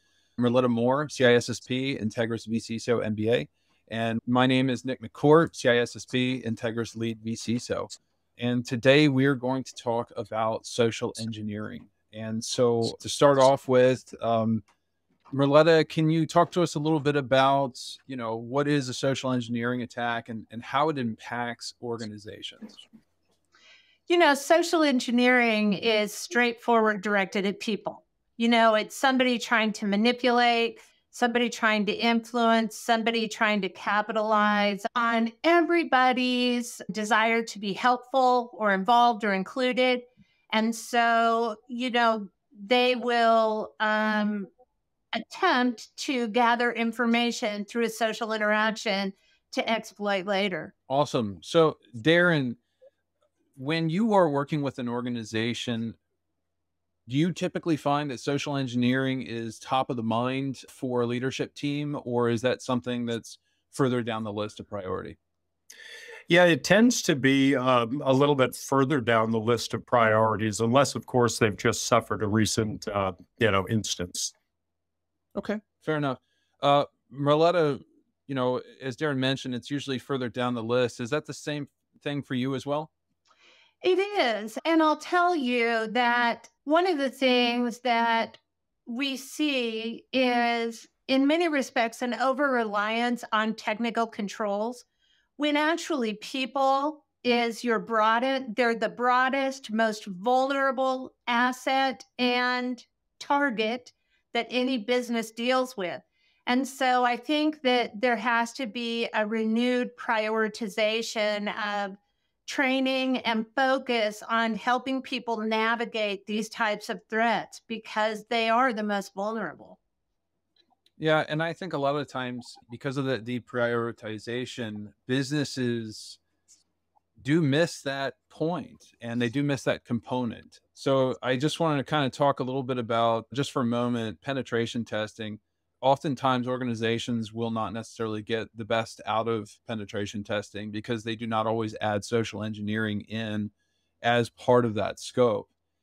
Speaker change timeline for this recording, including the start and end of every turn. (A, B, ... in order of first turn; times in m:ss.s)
0:00.4-0:14.6 A
0:15.3-0:22.8 A
0:24.1-0:44.5 B
0:45.1-0:50.7 B
0:50.9-0:52.6 A
0:53.6-0:56.0 A
0:57.1-1:05.2 A
1:06.3-1:14.3 C
1:15.3-1:22.9 A
1:23.8-1:34.8 B
1:35.4-1:59.8 B
2:01.0-2:06.2 A
2:07.2-2:25.5 A